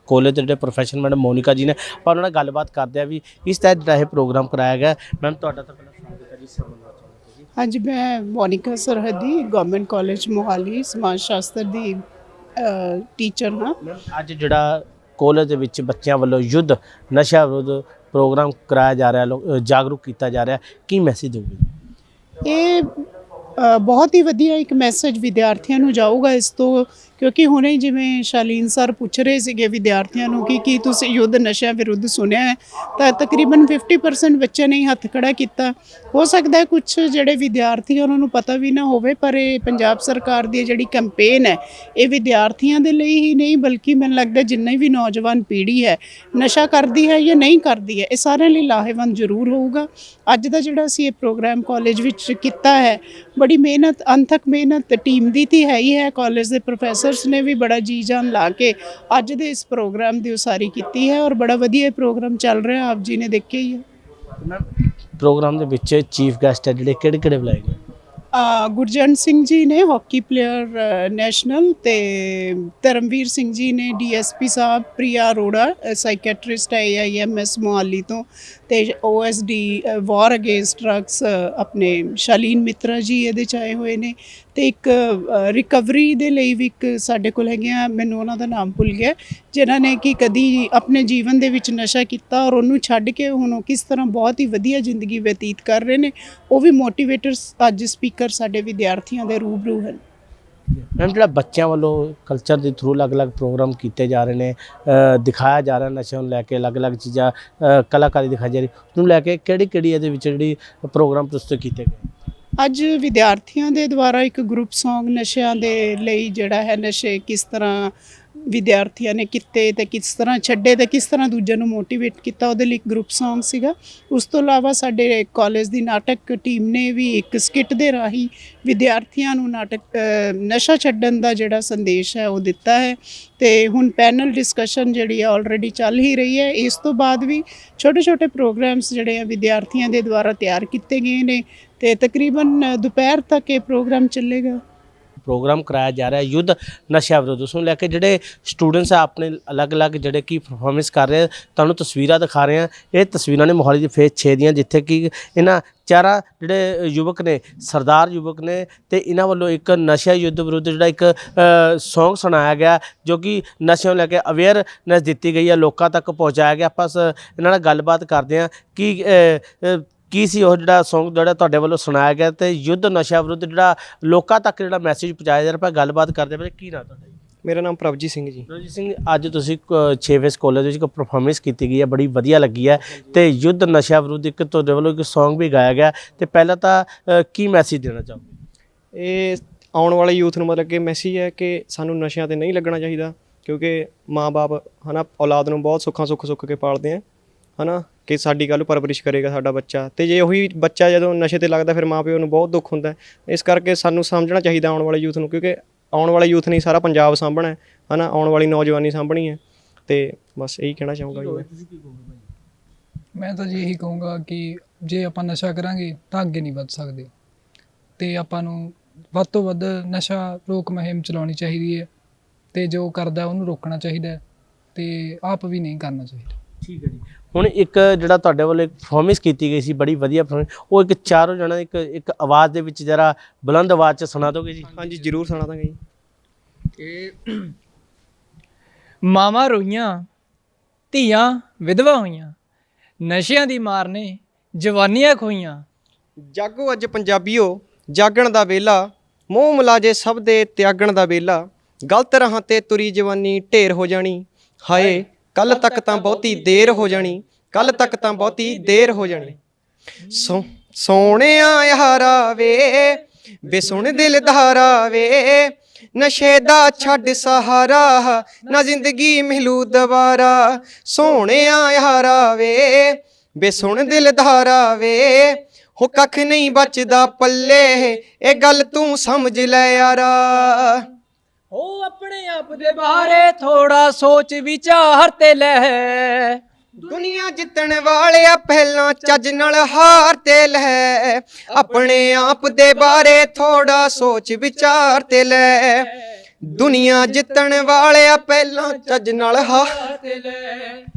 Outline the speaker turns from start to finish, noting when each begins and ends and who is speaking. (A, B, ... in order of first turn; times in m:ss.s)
0:00.1-0:07.4 A
0:07.6-0:12.0 B
0:12.6-0:13.8 B
0:13.8-0:21.7 A
0:22.4-0:22.9 B
0:23.6-1:03.8 B
1:05.2-1:07.8 A
1:08.3-1:40.0 B
1:40.7-1:52.1 A
1:52.6-2:24.6 B
2:25.2-2:57.2 A
2:57.4-2:58.5 C
2:58.5-3:08.3 A
3:08.9-3:17.0 C
3:17.6-3:31.5 C
3:31.1-3:32.3 A
3:33.2-3:37.1 D
3:38.0-3:41.9 D
3:42.5-3:44.2 D
3:44.8-3:46.3 D
3:46.6-3:54.7 A
3:54.7-3:55.8 C
3:56.8-3:57.5 E
3:59.1-4:00.0 E
4:00.9-4:02.4 E
4:03.0-4:05.6 E
4:06.3-4:19.4 C
4:20.1-4:40.8 C
4:41.5-4:46.4 E
4:46.9-4:55.9 C
4:56.4-5:00.1 C
5:00.2-5:00.6 E